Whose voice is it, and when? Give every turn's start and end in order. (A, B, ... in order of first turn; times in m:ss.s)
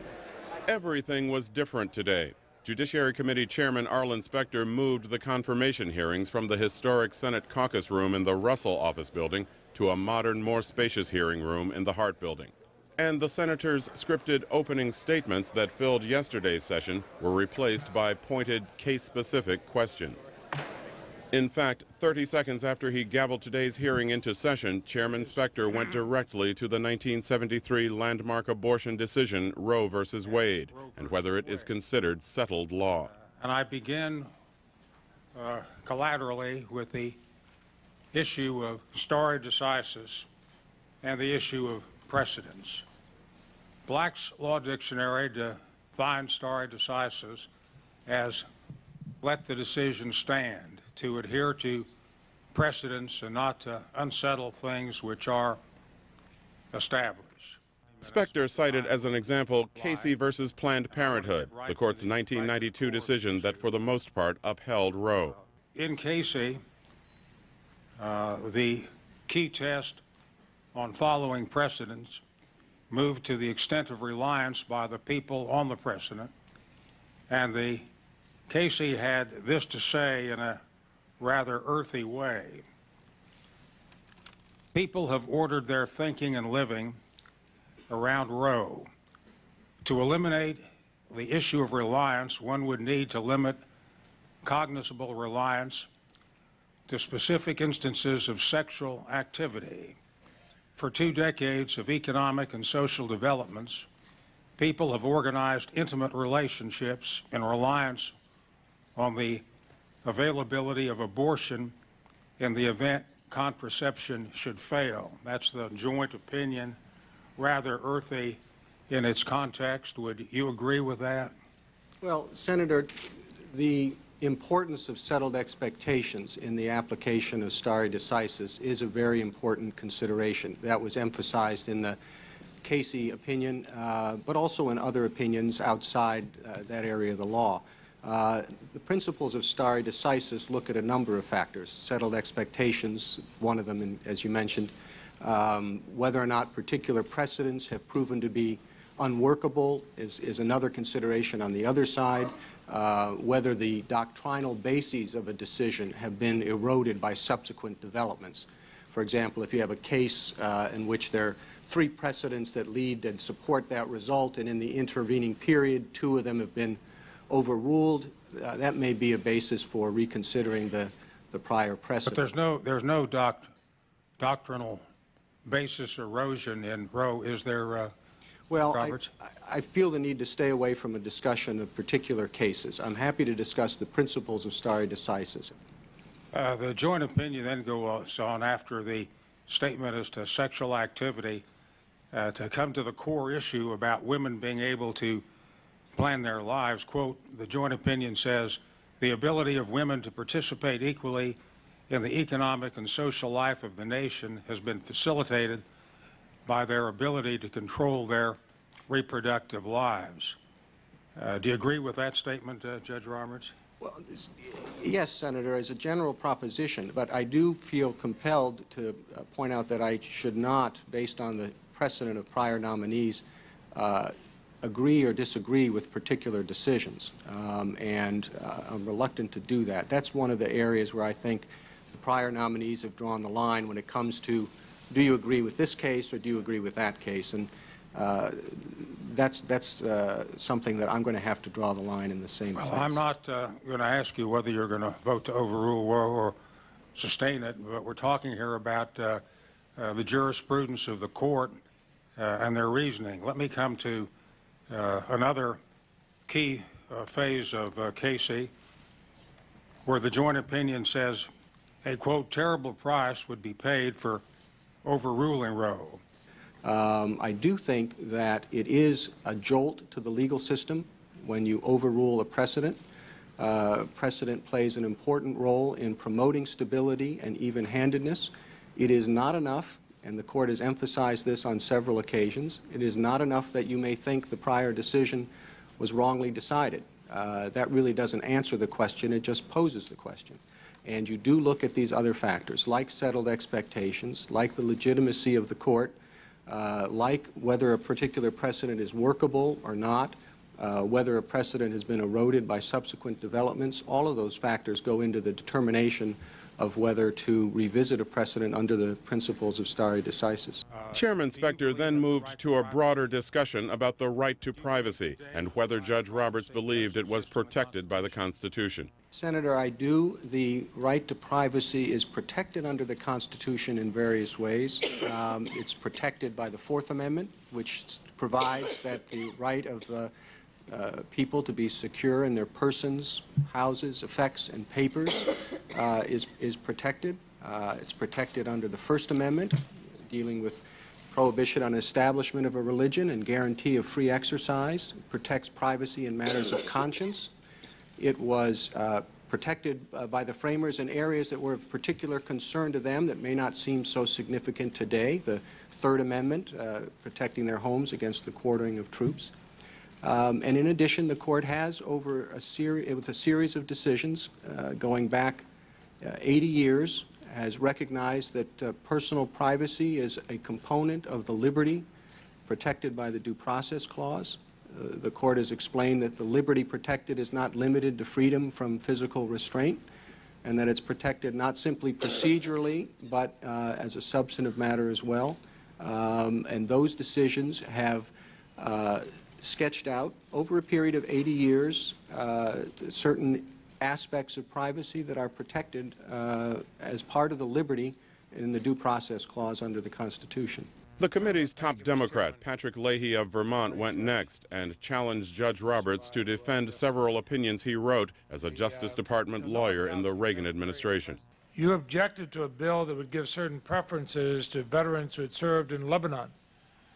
0:00.7-0:20.2 A
0:21.3-0:33.1 A
0:25.1-0:25.8 B
0:30.2-0:31.7 B
0:33.0-0:34.3 B
0:35.3-0:37.2 B
0:38.1-0:40.2 B
0:41.0-0:42.8 B
0:43.8-0:47.5 B
0:48.0-0:48.5 B
0:49.2-0:51.9 B
0:52.5-0:55.6 B
0:56.7-1:00.2 B
0:58.0-1:05.4 A
1:00.9-1:03.7 B
1:05.2-1:06.6 B
1:08.0-1:10.0 B
1:10.7-1:12.2 B
1:12.9-1:16.3 B
1:17.3-1:17.9 B
1:18.5-1:20.6 B
1:21.2-1:22.6 B
1:24.7-1:27.0 B
1:27.9-1:28.9 B
1:29.8-1:33.6 B
1:34.4-1:35.9 B
1:36.9-1:40.0 B
1:40.7-1:43.8 B
1:44.6-1:48.1 B
1:49.0-1:49.4 B
1:50.0-1:51.7 B
1:52.4-1:56.8 B
1:57.4-2:01.3 B
2:02.0-2:12.0 C
2:12.6-2:52.3 C
2:52.0-2:53.5 B
2:54.2-2:54.8 B
2:55.4-2:57.9 B
2:58.5-3:05.5 C
2:58.6-2:59.1 B
3:06.3-3:11.4 B
3:12.1-3:15.2 B
3:15.9-3:21.4 B
3:21.9-3:25.6 B
3:26.4-3:30.4 B
3:31.2-3:33.5 B
3:33.8-4:03.0 C
4:02.6-4:06.4 B
4:06.9-4:09.2 B
4:09.8-4:11.6 B
4:12.2-4:14.1 B
4:14.7-4:15.6 B
4:16.3-4:18.5 B
4:19.8-4:21.3 B
4:21.8-4:24.2 B
4:24.8-4:26.0 B
4:26.6-4:32.8 C
4:33.4-4:56.0 C
4:56.5-5:10.6 C
5:10.7-5:13.0 B
5:10.9-5:18.9 A
5:14.5-5:18.2 B
5:19.1-5:30.1 C
5:30.7-5:47.3 C
5:48.0-5:59.3 C
6:00.0-6:05.4 C
6:06.0-6:11.8 C
6:12.5-6:19.8 C
6:20.4-6:40.7 C
6:41.0-6:51.2 A
6:41.4-6:42.2 D
6:43.8-6:44.0 D
6:46.0-6:46.6 D
6:49.4-6:50.5 D
6:51.1-6:56.3 D